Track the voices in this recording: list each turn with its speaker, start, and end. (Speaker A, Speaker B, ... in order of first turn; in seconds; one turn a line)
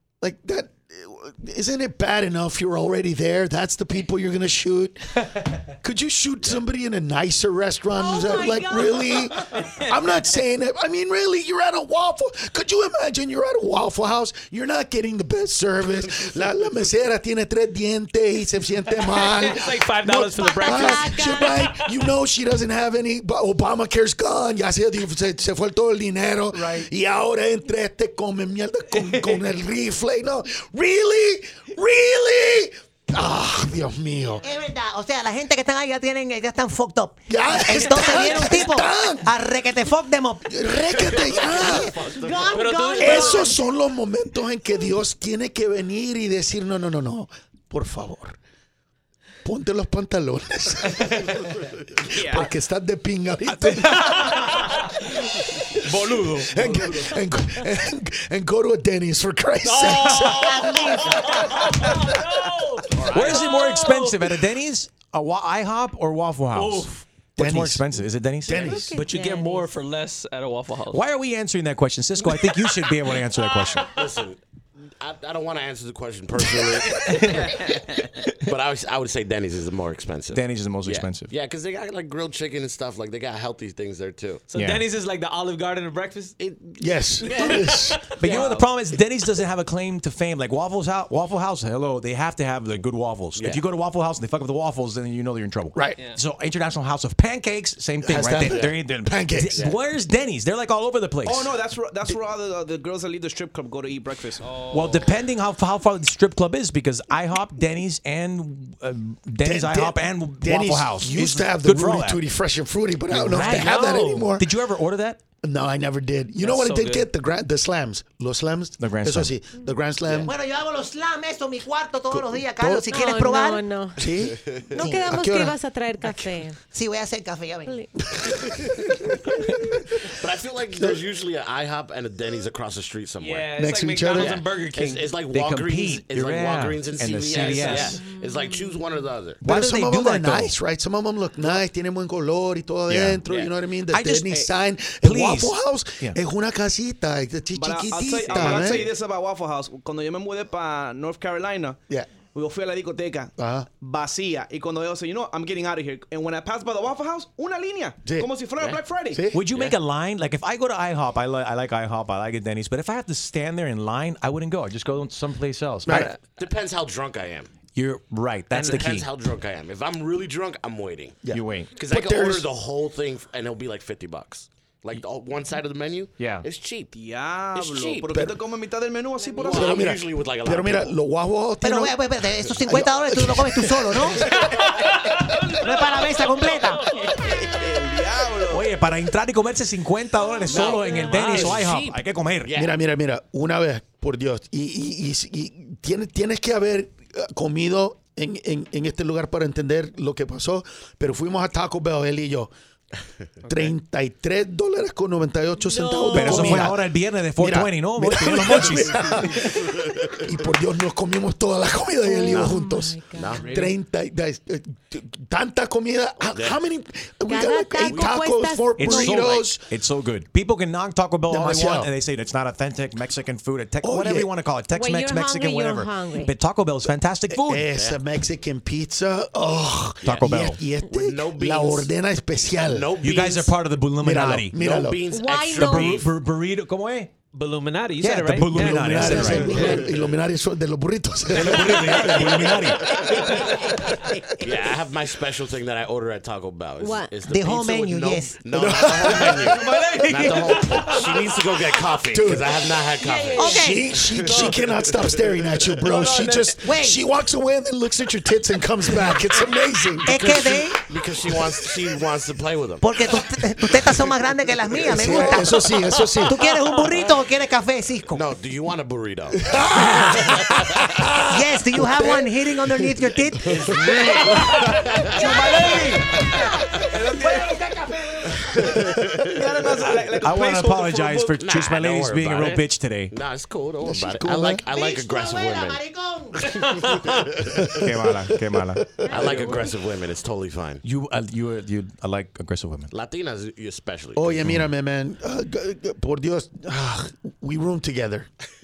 Speaker A: 0.2-34.5
Speaker B: 7.9-9.3
Speaker C: 16.1-16.5
Speaker D: 19.0-21.9
Speaker B: 20.4-21.6
Speaker D: 29.0-29.4
Speaker E: 34.4-40.5
Speaker A: 37.3-39.3
Speaker A: 40.5-41.9
Speaker C: 40.9-43.5
Speaker E: 41.4-42.0
Speaker B: 42.1-43.6
Speaker D: 42.6-43.1
Speaker A: 43.0-48.4
Speaker A: 49.4-54.8
Speaker F: 52.1-52.5
Speaker D: 53.8-55.2
Speaker A: 55.4-62.0
Speaker D: 55.7-57.2
Speaker D: 59.6-64.4
Speaker B: 60.7-60.9
Speaker C: 62.9-63.5
Speaker G: 63.1-68.8
Speaker D: 66.5-66.9
Speaker A: 67.4-68.9
Speaker B: 68.5-69.7
Speaker D: 68.9-71.0
Speaker G: 70.9-73.9
Speaker D: 72.4-72.7
Speaker C: 73.9-77.7
Speaker D: 76.9-77.8
Speaker C: 78.4-84.5
Speaker G: 80.3-81.3
Speaker D: 84.5-86.3
Speaker G: 84.5-84.9
Speaker C: 86.4-86.8
Speaker A: 86.8-88.1
Speaker D: 87.2-89.0
Speaker G: 88.1-101.5
Speaker C: 93.4-93.6
Speaker D: 96.0-96.2
Speaker A: 98.0-99.6
Speaker C: 98.1-98.8
Speaker C: 99.5-99.8
Speaker F: 101.2-104.5
Speaker D: 104.4-105.2
Speaker G: 104.7-112.2
Speaker A: 109.4-114.5
Speaker D: 113.1-114.3
Speaker G: 113.2-115.2
Speaker A: 115.4-120.3
Speaker D: 116.4-117.1
Speaker G: 118.8-119.3
Speaker C: 120.1-120.3
Speaker E: 120.2-123.7
Speaker A: 122.1-122.9
Speaker B: 122.9-124.1
Speaker A: 124.0-125.5
Speaker C: 124.2-124.8
Speaker B: 124.7-126.6
Speaker E: 124.8-125.1
Speaker E: 126.0-127.8
Speaker B: 127.6-127.9
Speaker A: 128.1-131.0
Speaker C: 130.1-133.5
Speaker D: 133.2-135.2
Speaker A: 133.6-134.4
Speaker C: 134.1-139.4
Speaker G: 135.2-138.1
Speaker D: 137.3-138.1
Speaker B: 137.9-138.9
Speaker G: 139.4-140.5
Speaker A: 139.4-148.9
Speaker G: 142.9-143.2
Speaker C: 143.2-143.5
Speaker G: 143.9-144.5
Speaker G: 145.0-146.2
Speaker F: 147.5-151.8
Speaker D: 148.3-148.6
Speaker F: 152.3-159.2
Speaker A: 153.4-153.7
Speaker A: 158.0-158.3
Speaker A: 159.1-159.4
Speaker G: 159.3-166.1
Speaker C: 159.5-159.8
Speaker A: 165.8-166.1
Speaker D: 165.9-166.1
Speaker C: 166.3-167.5
Speaker G: 167.7-169.1
Speaker C: 168.5-171.2
Speaker A: 171.2-172.5
Speaker G: 171.3-171.7
Speaker C: 171.7-176.9
Speaker G: 176.2-176.4
Speaker F: 176.9-179.9
Speaker C: 177.5-178.2
Speaker A: 178.1-178.4
Speaker C: 179.3-180.9
Speaker A: 179.4-182.0
Speaker E: 181.6-184.4
Speaker A: 182.6-184.3
Speaker D: 184.3-187.2
Speaker E: 185.5-186.9
Speaker F: 187.0-188.7
Speaker G: 188.4-192.5
Speaker D: 190.4-191.6
Speaker C: 190.4-192.8
Speaker A: 192.5-202.5
Speaker A: 203.4-219.7
Speaker D: 203.5-203.7
Speaker B: 205.6-206.7
Speaker G: 206.1-209.0
Speaker C: 209.4-210.3
Speaker B: 212.0-213.5
Speaker C: 212.3-212.6
Speaker C: 213.1-213.6
Speaker B: 217.3-219.4
Speaker C: 217.8-218.1
Speaker G: 218.8-227.7
Speaker A: 221.3-221.9
Speaker A: 223.8-224.3
Speaker B: 224.7-226.3
Speaker A: 227.3-232.9
Speaker C: 227.7-228.0
Speaker G: 230.0-230.6
Speaker C: 230.1-230.3
Speaker C: 230.8-231.9
Speaker C: 232.6-233.6
Speaker G: 233.0-234.5
Speaker A: 234.0-235.0
Speaker C: 234.5-236.1
Speaker B: 235.1-236.0
Speaker G: 235.4-237.1
Speaker D: 237.3-239.9
Speaker G: 238.0-239.7
Speaker A: 238.5-244.2
Speaker C: 239.3-240.2
Speaker G: 241.3-242.9
Speaker D: 241.4-243.6
Speaker C: 242.9-243.4
Speaker C: 244.4-255.8
Speaker B: 246.8-247.1
Speaker E: 247.2-248.4
Speaker A: 248.5-249.6
Speaker D: 249.0-251.8
Speaker A: 252.1-252.7
Speaker B: 253.0-253.8
Speaker E: 253.3-254.0
Speaker A: 253.4-261.6
Speaker D: 254.2-254.8
Speaker D: 255.8-256.5
Speaker E: 256.6-257.0
Speaker E: 260.0-260.8
Speaker C: 260.4-262.9
Speaker E: 262.8-268.2
Speaker A: 263.7-264.0
Speaker A: 264.8-266.4
Speaker C: 264.9-265.3
Speaker C: 268.1-270.9
Speaker A: 269.3-274.7
Speaker E: 271.3-273.9
Speaker C: 273.6-275.7
Speaker D: 274.0-276.0
Speaker F: 275.1-276.3
Speaker E: 276.2-278.9
Speaker F: 276.8-277.6
Speaker C: 278.9-279.4
Speaker F: 278.9-281.4
Speaker G: 280.2-283.1
Speaker C: 281.4-285.8
Speaker A: 283.8-284.6
Speaker E: 284.6-287.0
Speaker C: 286.4-287.9
Speaker A: 287.5-289.5
Speaker G: 287.6-289.0
Speaker C: 289.1-290.8
Speaker E: 289.1-289.4
Speaker D: 289.3-289.5
Speaker G: 290.8-292.9
Speaker C: 292.9-294.5
Speaker A: 294.1-298.3